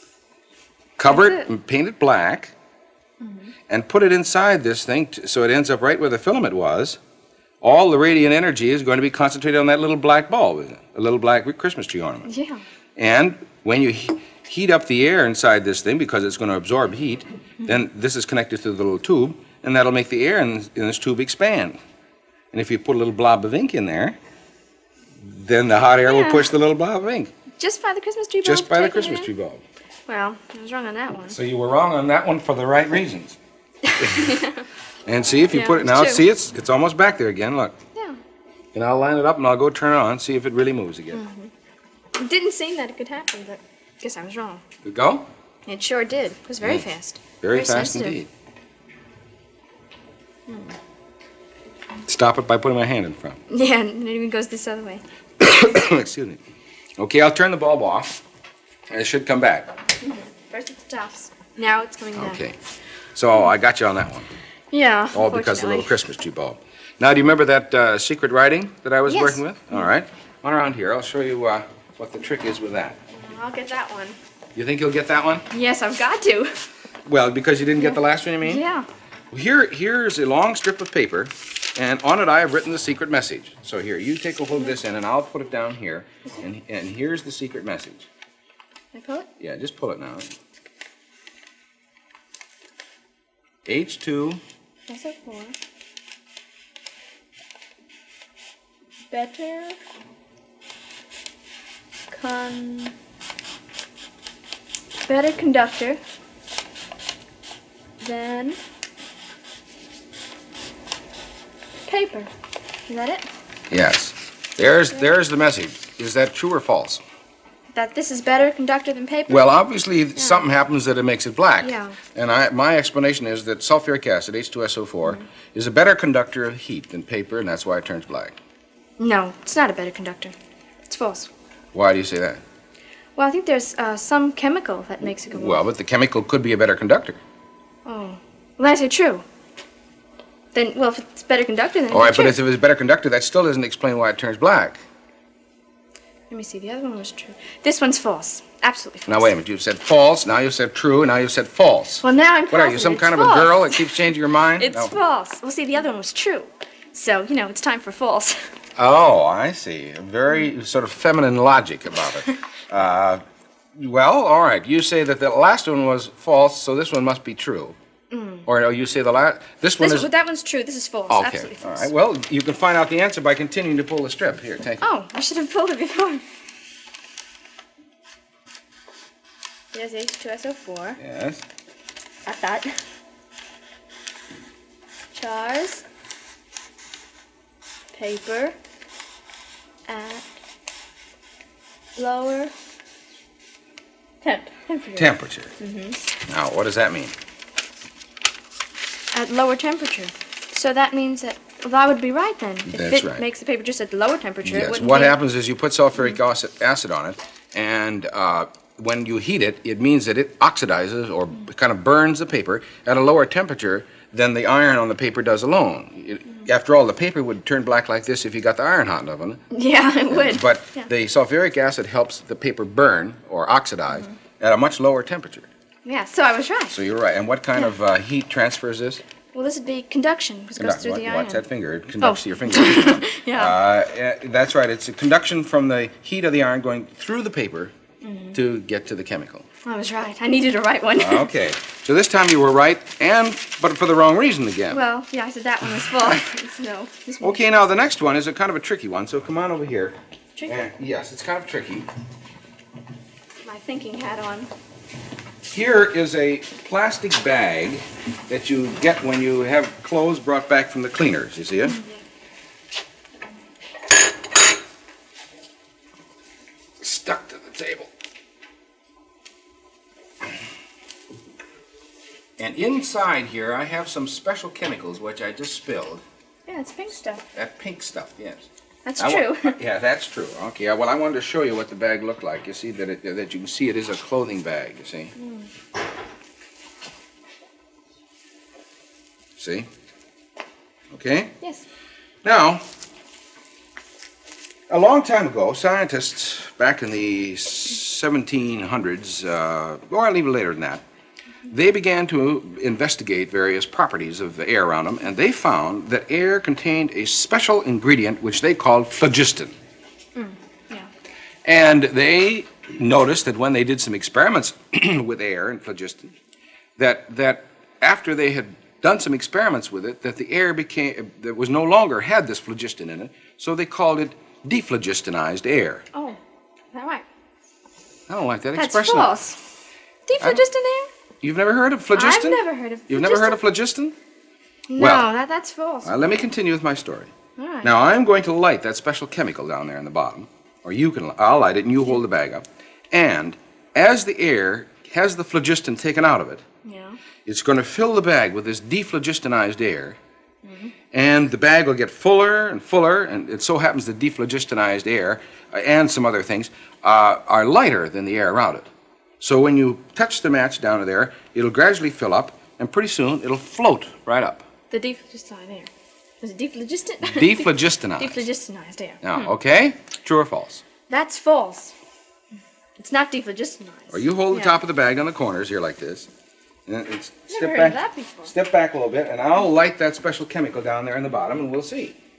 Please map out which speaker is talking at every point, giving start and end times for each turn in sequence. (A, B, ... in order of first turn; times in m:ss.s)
0:01.0-0:02.5 A
0:01.1-0:01.5 B
0:03.2-0:03.5 B
0:03.7-0:07.0 A
0:07.6-0:12.3 A
0:12.2-0:12.6 B
0:13.0-0:21.8 A
0:22.5-0:24.2 A
0:25.2-0:27.3 A
0:26.0-0:26.5 B
0:27.6-0:29.3 B
0:28.4-0:29.6 A
0:30.1-0:31.4 B
0:31.3-0:33.4 A
0:33.8-0:34.6 B
0:34.0-0:34.4 A
0:35.0-0:37.7 A
0:35.5-0:36.2 B
0:37.9-0:38.2 B
0:38.7-0:41.2 A
0:41.1-0:41.5 B
0:42.1-0:44.6 B
0:44.8-0:45.3 A
0:45.7-0:48.2 B
0:47.4-0:48.3 A
0:50.5-0:50.7 B
0:52.1-0:53.4 A
0:53.5-0:55.0 B
0:55.4-0:56.4 A
0:57.0-0:58.2 A
0:58.9-0:59.7 A
1:00.0-1:02.4 B
1:02.2-1:02.6 A
1:03.1-1:04.3 A
1:04.7-1:05.9 B
1:05.1-1:13.0 A
1:09.1-1:09.8 B
1:13.1-1:14.2 B
1:14.5-1:15.4 A
1:15.5-1:16.6 B
1:17.0-1:18.6 A
1:17.8-1:18.9 B
1:19.3-1:28.1 A
1:28.9-1:29.3 B
1:29.4-1:30.3 A
1:33.6-1:34.4 A
1:34.9-1:35.5 B
1:39.1-1:39.8 B
1:42.1-1:42.9 B
1:45.1-1:46.0 B
1:48.0-1:48.6 B
1:51.9-1:52.3 B
1:52.9-1:53.2 B
1:53.7-1:57.0 A
1:57.7-1:59.5 B
1:59.3-2:08.4 A
2:00.2-2:00.4 B
2:01.6-2:02.0 B
2:09.0-2:10.3 B
2:10.9-2:11.3 B
2:11.7-2:12.4 A
2:13.2-2:15.6 B
2:15.3-2:17.2 A
2:17.8-2:19.2 B
2:20.5-2:22.4 B
2:21.9-2:24.8 A
2:26.3-2:29.3 B
2:29.1-2:34.9 A
2:32.0-2:34.0 B
2:34.6-2:38.5 B
2:38.8-2:43.2 A
2:43.7-2:47.8 A
2:48.1-2:48.5 B
2:48.4-2:50.1 A
2:49.8-2:51.9 B
2:51.1-2:54.8 A
2:54.8-2:56.2 B
2:59.7-3:01.0 B
3:01.0-3:01.4 A
3:02.2-3:02.8 B
3:05.1-3:05.8 B
3:07.9-3:08.6 B
3:09.9-3:10.3 B
3:12.0-3:12.5 B
3:14.2-3:16.0 B
3:14.9-3:15.5 A
3:16.2-3:17.1 A
3:19.1-3:25.2 B
3:22.7-3:23.2 A
3:24.4-3:39.4 A
3:39.5-3:40.9 B
3:40.1-3:45.5 A
3:45.8-3:46.8 B
3:46.7-3:49.0 A
3:49.3-3:51.4 B
3:50.6-3:57.7 A
3:52.0-3:53.6 B
3:58.0-3:58.4 B
3:58.3-3:59.4 A
3:59.6-4:01.3 B
4:01.0-4:04.8 A
4:04.7-4:07.4 B
4:05.8-4:06.2 A
4:07.2-4:11.9 A
4:13.4-4:14.5 B
4:15.5-4:21.8 A
4:21.6-4:22.0 B
4:26.8-4:27.9 A
4:32.4-4:36.0 A
4:36.5-4:37.2 B
4:37.3-4:38.5 A
4:38.8-4:39.6 B
4:39.0-4:45.1 A
4:45.2-4:45.5 B
4:49.4-4:49.7 A
4:50.9-4:51.3 A
4:52.2-4:52.6 A
4:54.7-5:00.8 A
5:01.5-5:09.6 A
5:10.1-5:10.9 B
5:11.4-5:16.1 A
5:16.8-5:25.8 A
5:25.9-5:26.2 B
5:26.7-5:27.0 B
5:28.1-5:29.1 A
5:28.5-5:29.4 B
5:30.0-5:30.9 B
5:31.2-5:33.9 A
5:31.9-5:33.4 B
5:34.7-5:36.1 B
5:34.8-5:35.1 A
5:35.8-5:37.1 A
5:37.4-5:37.7 B
5:37.6-5:46.4 A
5:46.6-5:47.0 B
5:47.2-5:50.0 A
5:50.4-5:50.7 B
5:50.9-5:58.7 A
5:59.2-6:04.4 A
6:04.7-6:05.7 B
6:06.2-6:09.3 B
6:07.0-6:08.2 A
6:09.0-6:10.6 A
6:10.9-6:11.7 B
6:12.8-6:14.6 B
6:13.9-6:16.1 A
6:16.7-6:22.0 A
6:17.3-6:18.3 B